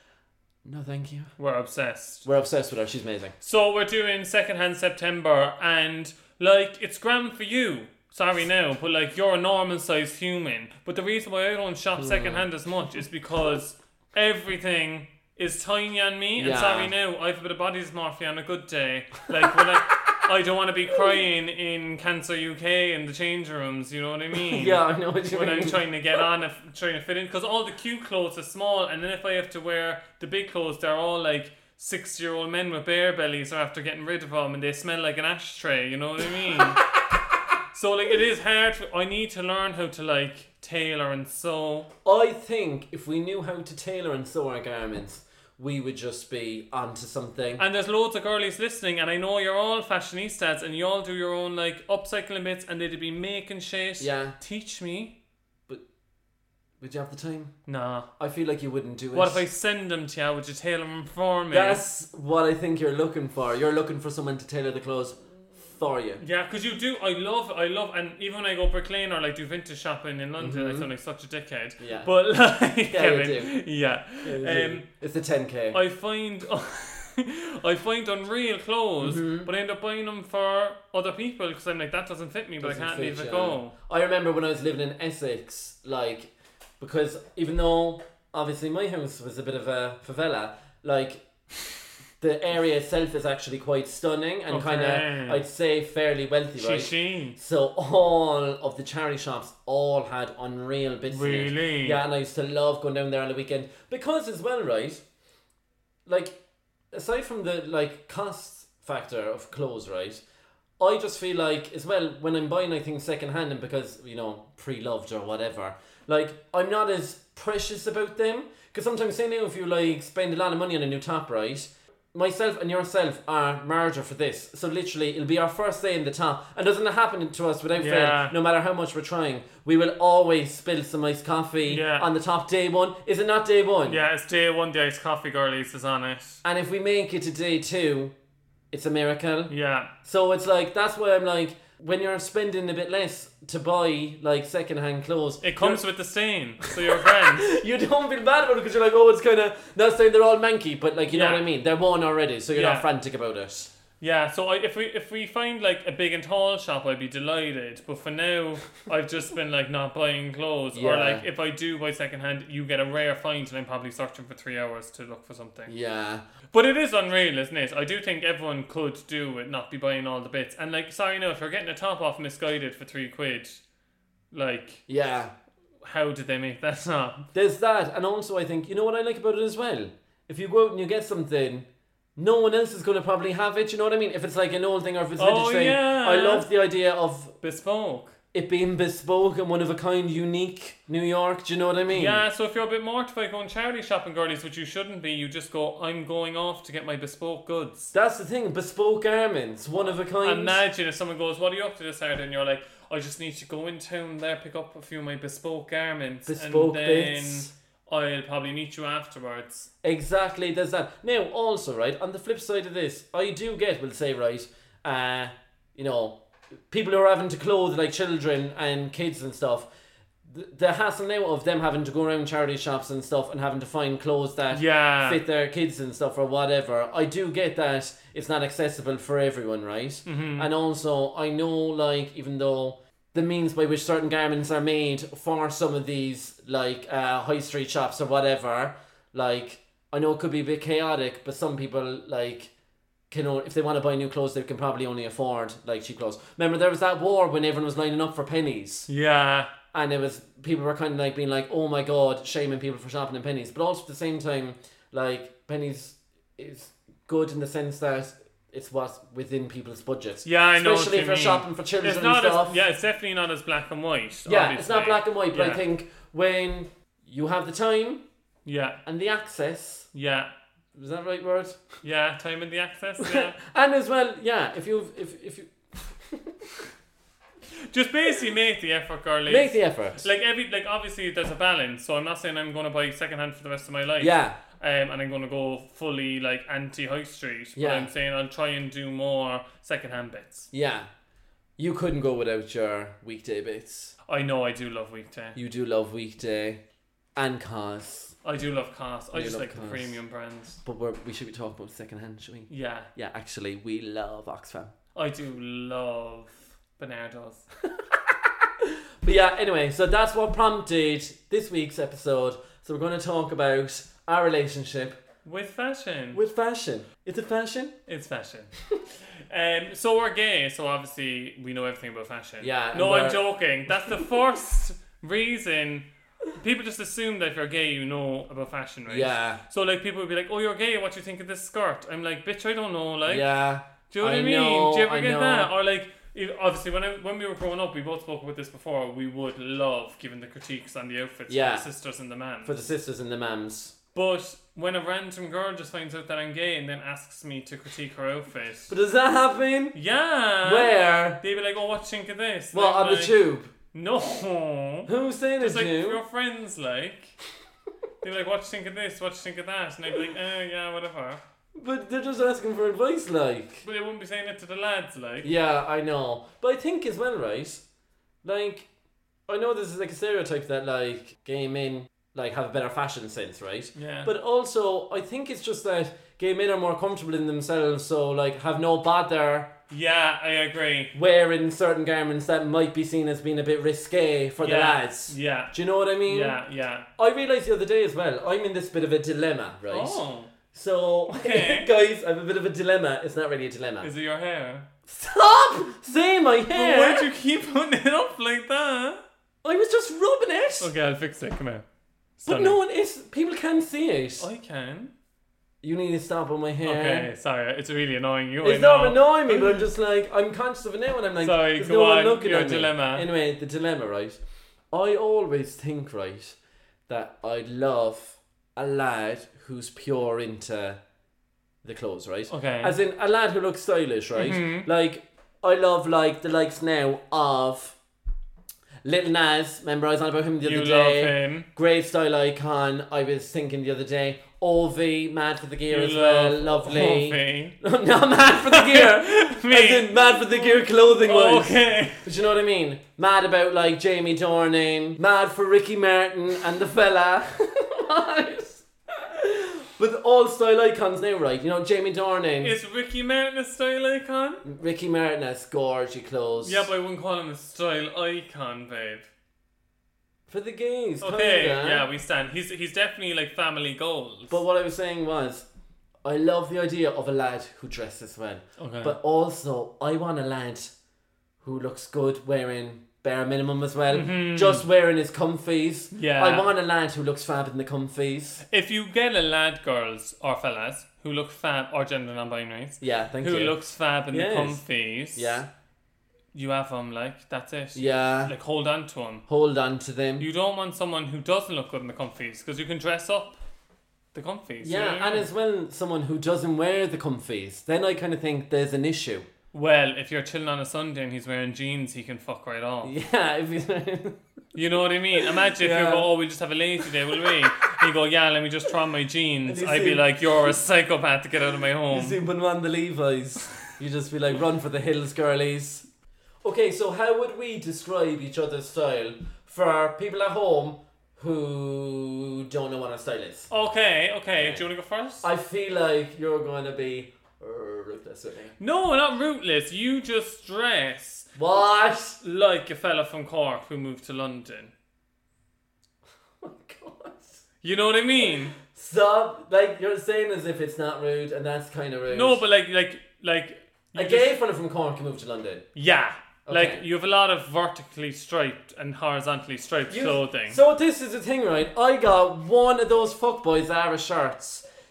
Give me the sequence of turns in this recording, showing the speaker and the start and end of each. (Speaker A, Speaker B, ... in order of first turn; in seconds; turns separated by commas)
Speaker A: 0.6-1.3, Speaker B: 1.4-2.2, Speaker A: 2.2-3.3, Speaker B: 3.4-36.8, Speaker A: 11.9-12.4, Speaker A: 16.4-16.9, Speaker A: 24.5-25.8, Speaker B: 37.7-41.9, Speaker A: 42.0-47.6, Speaker B: 47.6-55.1, Speaker A: 54.0-54.4, Speaker A: 56.8-57.5, Speaker B: 57.7-58.1, Speaker A: 58.2-59.4, Speaker B: 59.1-61.8, Speaker A: 61.5-66.2, Speaker B: 66.2-74.9, Speaker A: 70.4-70.9, Speaker A: 71.8-72.1, Speaker A: 72.9-73.6, Speaker A: 74.2-75.8, Speaker B: 75.7-83.7, Speaker A: 79.0-79.5, Speaker A: 82.6-91.2, Speaker A: 92.2-105.0, Speaker B: 94.5-95.4, Speaker B: 96.6-97.3, Speaker B: 101.1-102.0, Speaker A: 106.0-106.4, Speaker A: 106.9-110.2, Speaker A: 110.8-134.0, Speaker B: 127.8-128.3, Speaker B: 131.7-132.1, Speaker B: 133.8-136.4, Speaker A: 136.4-138.1, Speaker A: 138.7-139.5, Speaker B: 139.5-139.9, Speaker A: 140.0-145.8, Speaker B: 145.4-147.5, Speaker A: 147.3-153.7, Speaker B: 151.1-151.4, Speaker B: 152.5-152.9, Speaker B: 154.0-165.7, Speaker A: 160.7-161.2, Speaker A: 165.7-166.2, Speaker B: 166.5-173.6, Speaker B: 174.3-174.9, Speaker A: 174.9-175.3, Speaker B: 175.8-177.3, Speaker A: 177.3-187.3, Speaker B: 185.2-186.5, Speaker B: 187.4-188.2, Speaker A: 188.3-192.2, Speaker B: 191.9-197.9, Speaker A: 197.9-200.6, Speaker B: 199.8-209.7, Speaker A: 206.2-207.5, Speaker A: 209.8-219.7, Speaker A: 220.3-242.5, Speaker B: 224.5-225.2, Speaker B: 230.1-230.5, Speaker A: 243.1-248.9, Speaker B: 248.9-249.5, Speaker A: 249.7-262.6, Speaker B: 260.2-265.6, Speaker A: 264.2-268.0, Speaker B: 268.4-268.8, Speaker A: 268.9-269.9, Speaker B: 269.9-270.3, Speaker A: 270.7-271.6, Speaker B: 271.8-273.3, Speaker A: 273.0-276.3, Speaker B: 277.7-290.5, Speaker A: 279.3-280.0, Speaker A: 284.0-284.4, Speaker A: 287.6-287.9, Speaker A: 290.5-290.9, Speaker A: 291.6-293.9, Speaker B: 294.1-295.4, Speaker A: 295.3-296.6, Speaker A: 297.1-298.1, Speaker B: 298.2-300.6, Speaker A: 299.1-300.0, Speaker A: 300.6-304.7, Speaker B: 302.5-302.9, Speaker B: 304.9-307.4, Speaker A: 308.6-315.0, Speaker B: 315.2-316.2, Speaker A: 316.1-317.8, Speaker B: 317.9-318.5, Speaker B: 319.3-333.3, Speaker A: 322.4-323.2, Speaker A: 328.9-329.4, Speaker A: 333.1-335.5, Speaker B: 333.9-342.6, Speaker A: 341.3-341.7, Speaker A: 342.4-343.7, Speaker B: 343.9-348.7, Speaker A: 348.7-349.8, Speaker B: 349.7-353.2, Speaker A: 350.4-351.2, Speaker A: 352.5-353.5, Speaker B: 353.7-354.9, Speaker A: 354.9-356.0, Speaker B: 355.4-357.1, Speaker B: 358.0-361.2, Speaker A: 361.6-363.6, Speaker B: 363.6-365.3, Speaker A: 365.2-367.6, Speaker A: 368.2-368.7, Speaker A: 369.3-379.5, Speaker B: 373.8-374.1, Speaker B: 379.7-380.9, Speaker A: 380.9-386.4, Speaker B: 384.4-386.9, Speaker A: 387.0-390.0, Speaker B: 389.7-390.3, Speaker A: 390.5-393.9, Speaker B: 391.1-391.7, Speaker B: 393.8-394.6, Speaker A: 394.9-397.1, Speaker B: 396.5-399.0, Speaker A: 399.4-400.7, Speaker B: 400.6-401.6, Speaker B: 402.2-402.6, Speaker A: 402.2-404.3, Speaker B: 404.2-404.9, Speaker A: 405.6-407.1, Speaker B: 406.6-409.7, Speaker A: 408.4-414.2, Speaker B: 411.2-413.1, Speaker A: 414.7-420.8, Speaker A: 421.6-427.8, Speaker B: 422.3-422.7, Speaker B: 424.1-424.7, Speaker A: 428.8-452.5, Speaker B: 430.4-431.5, Speaker B: 435.7-437.6, Speaker B: 438.5-442.0, Speaker B: 452.4-454.4, Speaker A: 454.4-456.7, Speaker B: 456.4-459.1, Speaker A: 460.3-461.8, Speaker B: 461.0-464.4, Speaker A: 464.3-465.4, Speaker A: 466.0-470.7, Speaker B: 468.6-468.9, Speaker A: 471.4-478.4, Speaker B: 473.9-474.6, Speaker B: 475.9-476.5, Speaker B: 478.5-485.4, Speaker A: 482.8-483.6, Speaker A: 484.1-484.6, Speaker A: 485.1-485.5, Speaker B: 486.3-489.2, Speaker A: 487.7-488.3, Speaker A: 489.3-490.3, Speaker B: 490.2-493.4, Speaker B: 494.1-495.3, Speaker A: 494.6-499.3, Speaker B: 499.5-502.9, Speaker A: 502.8-504.2, Speaker B: 504.5-512.2, Speaker A: 505.6-506.1, Speaker A: 509.4-510.0, Speaker A: 511.9-515.8, Speaker A: 516.4-523.5, Speaker B: 523.5-525.3, Speaker A: 524.4-524.6, Speaker A: 525.2-528.5, Speaker B: 528.6-531.3, Speaker A: 531.4-532.2, Speaker B: 532.2-534.7, Speaker A: 536.4-537.4, Speaker B: 537.6-538.5, Speaker A: 538.6-542.4, Speaker B: 542.1-544.4, Speaker A: 543.9-545.6, Speaker B: 545.7-550.6, Speaker A: 546.5-546.8, Speaker A: 549.9-554.6